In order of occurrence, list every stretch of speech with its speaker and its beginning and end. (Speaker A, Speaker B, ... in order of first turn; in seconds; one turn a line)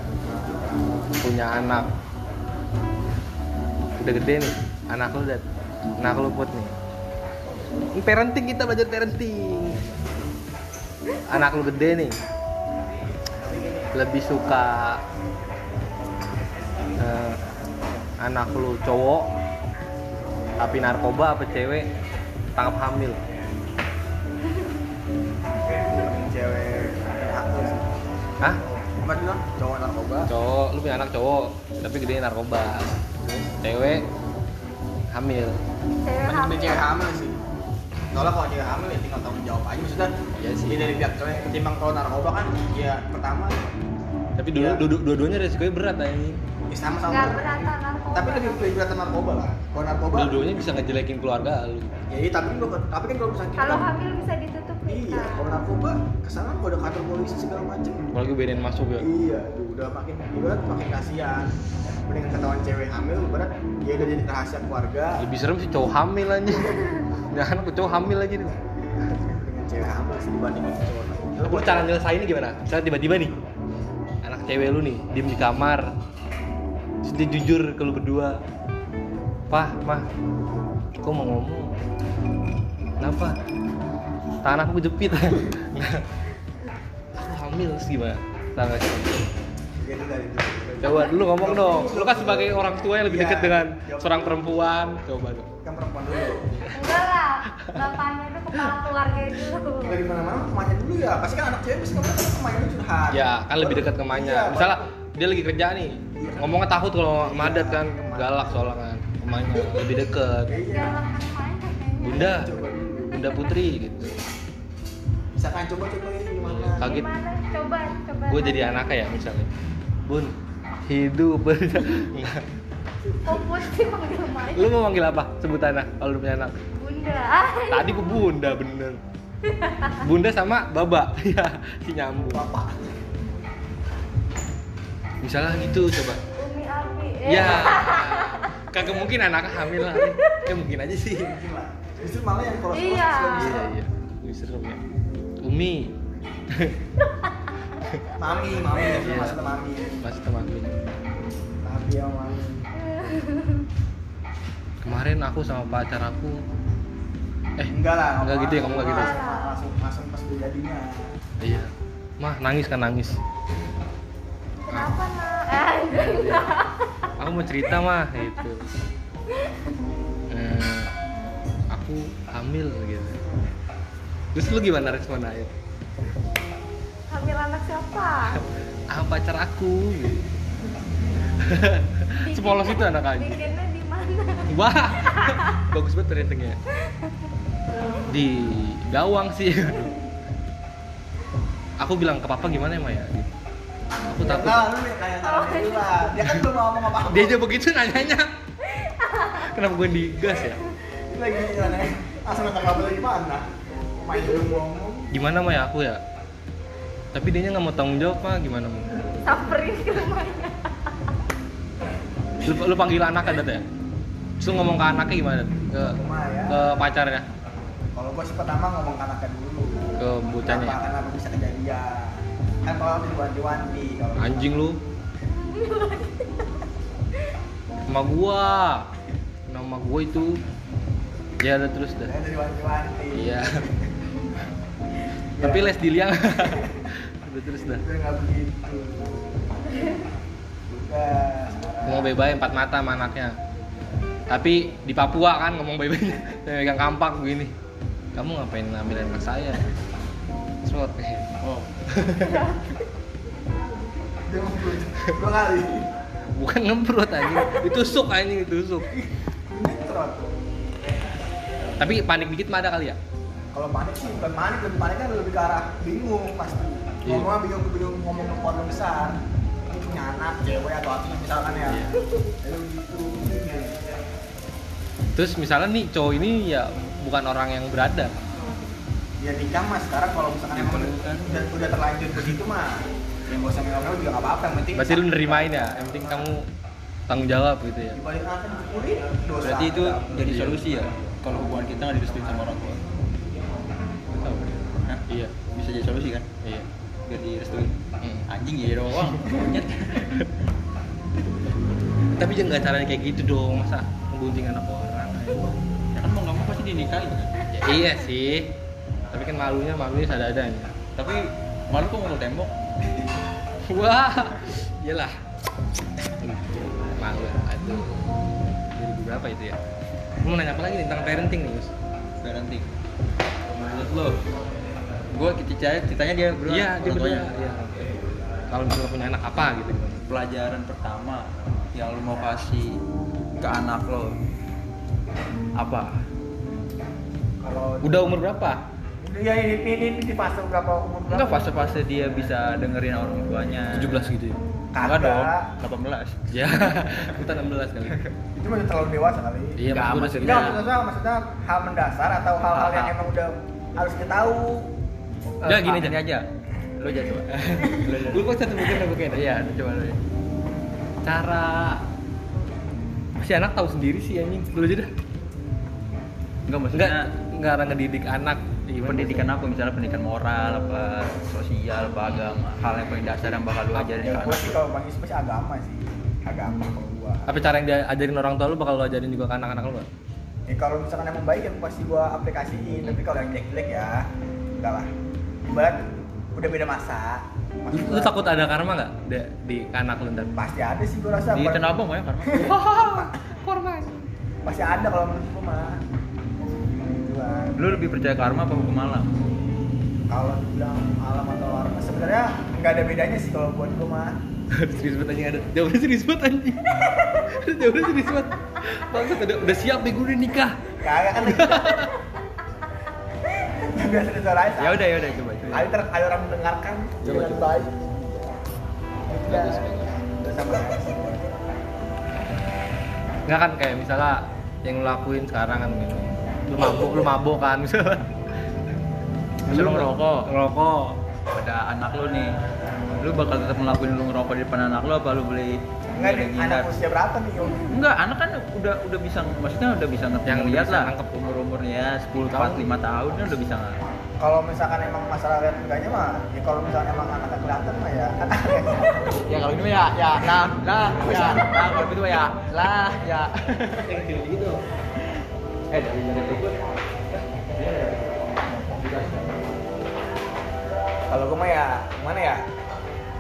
Speaker A: 1.2-1.9
Speaker A: 4.0-5.4
Speaker A: 6.0-6.7
Speaker A: 7.9-9.8
Speaker A: 11.2-12.2
Speaker B: 13.4-13.9
Speaker A: 13.9-15.0
Speaker A: 17.0-17.4
Speaker A: 18.2-19.3
Speaker A: 20.6-21.9
Speaker A: 22.6-23.2
Speaker B: 25.7-27.9
Speaker B: 29.0-30.3
Speaker A: 30.3-33.0
Speaker B: 33.2-33.5
Speaker A: 33.5-34.0
Speaker A: 35.1-35.6
Speaker C: 36.0-36.9
Speaker B: 36.2-37.4
Speaker B: 38.1-40.1
Speaker A: 40.4-41.0
Speaker B: 40.7-43.6
Speaker A: 44.4-46.4
Speaker B: 44.5-44.8
Speaker B: 46.7-50.4
Speaker C: 47.1-48.7
Speaker A: 50.1-51.9
Speaker B: 52.1-53.9
Speaker C: 53.6-55.6
Speaker B: 54.9-58.2
Speaker A: 58.1-59.1
Speaker B: 59.0-61.5
Speaker B: 62.1-65.2
Speaker A: 65.2-68.6
Speaker B: 69.0-71.9
Speaker A: 71.4-73.3
Speaker A: 74.2-75.9
Speaker A: 77.0-78.4
Speaker A: 79.5-80.1
Speaker A: 81.0-81.7
Speaker A: 83.0-83.4
Speaker A: 84.4-86.0
Speaker A: 87.2-89.2
Speaker B: 89.8-94.4
Speaker A: 90.8-95.5
Speaker B: 95.6-96.6
Speaker A: 96.5-96.9
Speaker C: 96.7-100.0
Speaker B: 99.8-104.9
Speaker A: 103.1-110.6
Speaker B: 106.2-106.6
Speaker B: 107.1-108.7
Speaker B: 110.5-111.0
Speaker C: 110.6-113.6
Speaker A: 112.0-112.5
Speaker B: 112.1-113.2
Speaker A: 113.1-114.2
Speaker B: 115.3-117.0
Speaker A: 116.4-117.1
Speaker C: 116.8-118.9
Speaker A: 118.3-119.5
Speaker A: 120.1-120.3
Speaker A: 120.9-122.4
Speaker C: 123.2-124.7
Speaker A: 124.5-126.6
Speaker C: 126.8-128.2
Speaker A: 127.7-129.0
Speaker C: 129.5-129.9
Speaker A: 130.0-132.4
Speaker B: 132.3-132.9
Speaker A: 135.2-136.2
Speaker C: 136.3-138.6
Speaker A: 137.2-141.3
Speaker C: 139.9-140.4
Speaker B: 141.1-143.7
Speaker C: 142.7-143.6
Speaker A: 143.3-144.8
Speaker A: 145.4-145.9
Speaker A: 146.5-146.8
Speaker B: 148.2-150.0
Speaker A: 148.9-149.4
Speaker A: 150.0-150.8
Speaker B: 151.6-152.7
Speaker C: 152.8-153.7
Speaker A: 154.8-156.4
Speaker A: 157.6-159.2
Speaker B: 157.7-161.1
Speaker C: 158.8-159.6
Speaker A: 161.4-163.2
Speaker C: 164.7-166.7
Speaker A: 165.9-166.6
Speaker A: 167.2-168.6
Speaker A: 170.3-170.9
Speaker A: 171.7-173.2
Speaker A: 174.3-175.5
Speaker C: 177.1-178.4
Speaker A: 178.9-180.2
Speaker A: 181.4-183.4
Speaker C: 182.2-185.6
Speaker A: 184.5-186.6
Speaker A: 188.0-189.9
Speaker A: 191.8-193.3
Speaker A: 194.0-194.7
Speaker B: 194.2-197.4
Speaker C: 195.2-196.2
Speaker A: 197.1-198.3
Speaker C: 198.7-199.4
Speaker A: 199.3-200.6
Speaker B: 200.9-205.1
Speaker A: 205.1-206.0
Speaker A: 207.1-209.1
Speaker C: 209.2-210.9
Speaker A: 212.4-213.6
Speaker A: 214.4-216.0
Speaker B: 215.8-216.8
Speaker A: 216.5-217.2
Speaker B: 217.9-219.8
Speaker A: 220.0-220.8
Speaker B: 220.4-224.5
Speaker A: 224.2-224.8
Speaker C: 225.4-226.2
Speaker A: 227.9-228.9
Speaker A: 229.5-230.4
Speaker A: 231.4-232.1
Speaker B: 232.0-233.9
Speaker A: 233.1-233.6
Speaker B: 235.2-235.8
Speaker A: 235.4-237.8
Speaker B: 236.4-236.8
Speaker B: 237.8-239.4
Speaker B: 240.7-242.1
Speaker A: 241.8-243.3
Speaker A: 244.3-247.5
Speaker A: 248.1-249.7
Speaker A: 250.6-251.3
Speaker D: 251.4-251.7
Speaker A: 251.9-252.5
Speaker B: 254.3-255.9
Speaker A: 256.4-258.9
Speaker B: 258.9-260.3
Speaker A: 261.8-263.0
Speaker B: 263.5-273.8
Speaker A: 267.0-267.3
Speaker A: 271.7-272.0
Speaker A: 275.1-278.1
Speaker B: 279.2-286.3
Speaker D: 280.5-281.3
Speaker A: 284.7-286.5
Speaker A: 287.1-288.0
Speaker B: 287.9-290.5
Speaker D: 289.4-292.8
Speaker A: 290.3-290.6
Speaker A: 294.1-294.5
Speaker D: 294.8-296.3
Speaker A: 295.1-295.3
Speaker A: 296.4-296.7
Speaker D: 297.1-300.3
Speaker A: 298.0-298.3
Speaker A: 302.1-305.5
Speaker D: 305.9-307.3
Speaker A: 307.5-308.5
Speaker A: 309.1-310.7
Speaker D: 310.9-312.5
Speaker A: 313.7-315.1
Speaker A: 316.2-318.0
Speaker A: 318.7-319.6
Speaker A: 320.2-321.7
Speaker D: 322.2-322.7
Speaker D: 323.6-324.1
Speaker D: 325.1-327.3
Speaker A: 326.4-327.9
Speaker A: 328.5-330.1
Speaker D: 330.1-332.8
Speaker D: 333.4-334.1
Speaker D: 335.5-336.0
Speaker B: 337.4-338.1
Speaker A: 337.8-338.6
Speaker B: 339.0-341.6
Speaker D: 341.1-344.1
Speaker A: 343.7-344.4
Speaker B: 344.7-345.5
Speaker D: 344.8-347.1
Speaker A: 346.3-348.0
Speaker B: 348.3-354.7
Speaker A: 349.6-350.6
Speaker D: 349.7-350.6
Speaker D: 352.5-352.9
Speaker A: 355.4-356.0
Speaker D: 355.4-356.2
Speaker D: 356.8-360.0
Speaker A: 357.3-359.4
Speaker A: 361.0-361.8
Speaker A: 363.2-364.9
Speaker D: 366.5-367.1
Speaker A: 366.7-369.3
Speaker D: 368.8-374.6
Speaker A: 373.7-374.0
Speaker B: 374.0-377.3
Speaker A: 377.3-379.9
Speaker B: 380.5-384.9
Speaker B: 385.4-388.3
Speaker A: 387.7-390.4
Speaker B: 390.4-393.1
Speaker D: 391.3-392.6
Speaker A: 392.3-393.9
Speaker B: 394.4-395.8
Speaker B: 396.7-397.6
Speaker D: 397.6-399.1
Speaker B: 400.1-404.2
Speaker A: 404.5-410.6
Speaker B: 410.8-411.9
Speaker A: 411.2-411.9
Speaker B: 413.5-414.9
Speaker D: 414.6-415.7
Speaker B: 415.5-418.3
Speaker D: 417.0-417.4
Speaker A: 417.1-417.4
Speaker B: 419.1-421.2
Speaker A: 419.3-420.0
Speaker A: 423.3-428.1
Speaker D: 429.4-430.3
Speaker A: 429.5-431.0
Speaker D: 431.3-432.4
Speaker D: 433.0-436.7
Speaker B: 435.9-437.7
Speaker D: 437.7-443.7
Speaker A: 440.2-441.1
Speaker A: 442.1-442.7
Speaker B: 444.2-449.3
Speaker D: 449.2-453.9
Speaker B: 450.2-451.7
Speaker A: 453.8-454.6
Speaker A: 455.7-456.5
Speaker A: 457.1-457.9
Speaker D: 457.6-458.0
Speaker D: 458.6-459.1
Speaker A: 458.8-459.3
Speaker B: 461.1-462.4